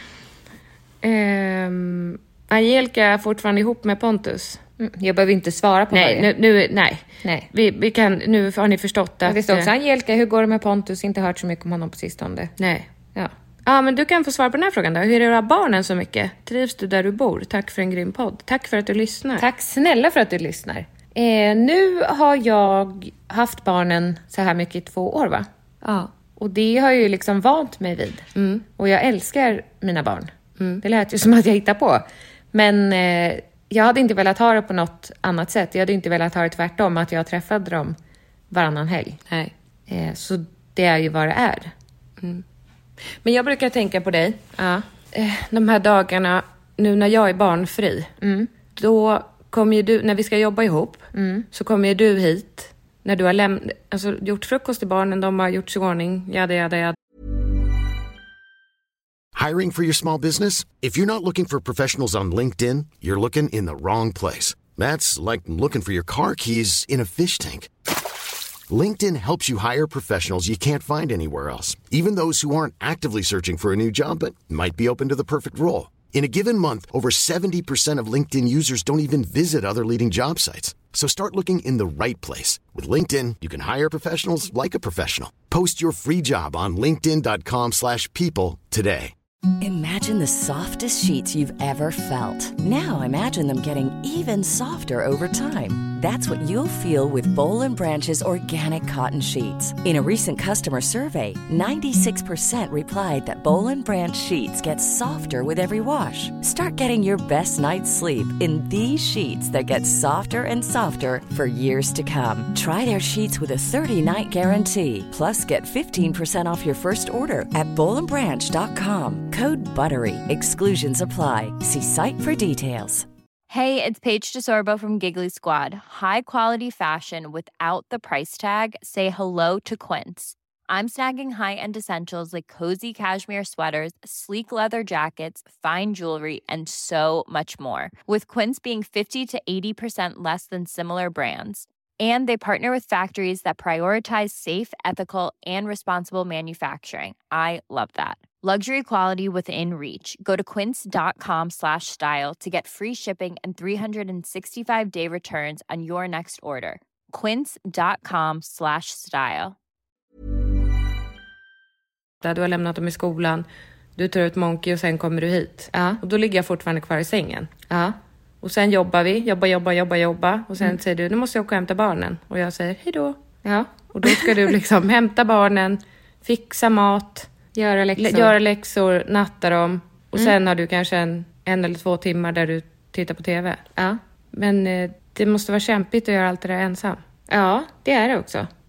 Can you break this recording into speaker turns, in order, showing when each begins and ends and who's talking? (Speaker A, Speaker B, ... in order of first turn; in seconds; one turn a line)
Speaker A: 1.1-4.6
Speaker B: 4.8-6.3
Speaker A: 5.9-7.0
Speaker A: 7.5-9.4
Speaker B: 9.2-12.5
Speaker A: 13.7-19.4
Speaker B: 19.4-38.0
Speaker B: 38.5-39.2
Speaker B: 39.9-41.7
Speaker A: 43.2-44.4
Speaker B: 44.5-44.8
Speaker A: 45.1-48.1
Speaker B: 48.2-48.5
Speaker A: 48.8-56.9
Speaker B: 51.1-51.5
Speaker C: 59.3-67.7
Speaker C: 68.7-89.1
Speaker D: 89.6-123.1
Speaker E: 123.5-159.6
Speaker A: 162.2-163.4
Speaker A: 164.0-167.5
Speaker B: 165.7-166.0
Speaker B: 167.7-167.9
Speaker A: 168.4-173.2
Speaker B: 173.4-174.2
Speaker A: 174.0-177.3
Speaker B: 177.5-178.3
Speaker A: 178.0-183.6
Speaker A: 184.3-187.0
Speaker B: 187.3-188.5